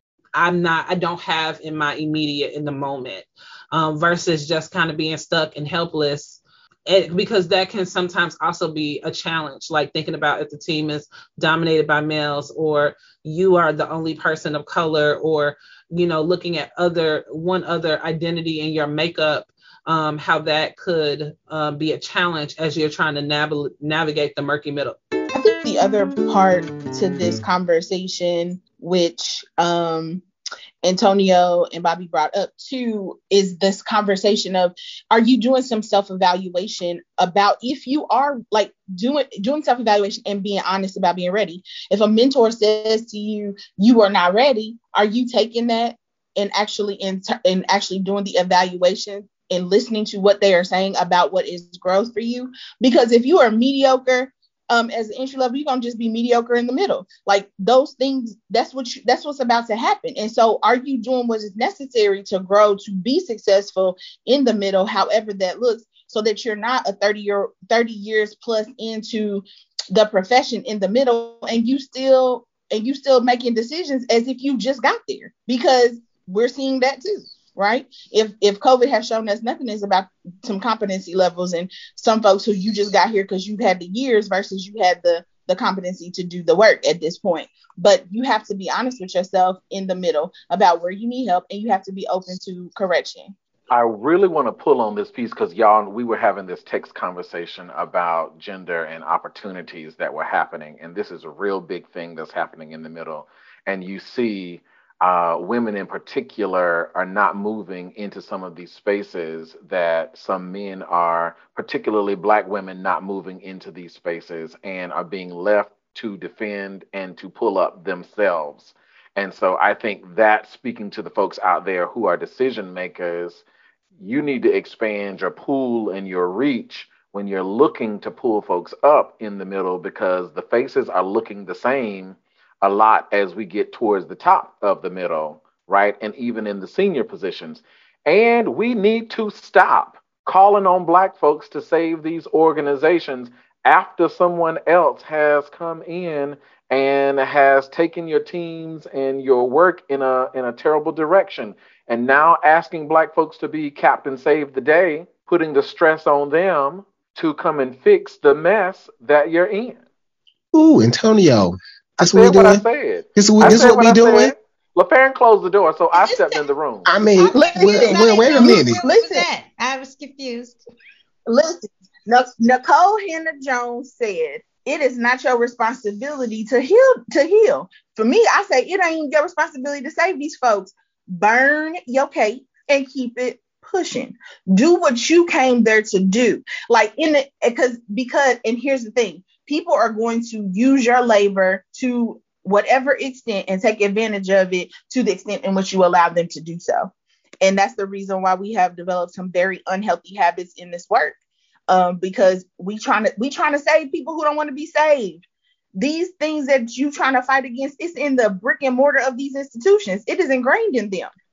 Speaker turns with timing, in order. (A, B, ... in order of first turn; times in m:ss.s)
0:00.3-0:25.0 A
0:25.3-0:30.2 B
0:30.8-1:33.3 B
1:33.7-2:03.4 C
2:04.0-2:39.8 C
2:40.5-2:42.6 D
2:42.0-2:46.9 C
2:43.2-2:44.3 D
2:45.9-2:46.4 E
2:46.8-2:48.8 D
2:47.2-2:50.6 E
2:47.3-2:49.2 B
2:51.3-3:21.2 B
3:21.7-3:25.2 B
3:25.8-3:31.1 B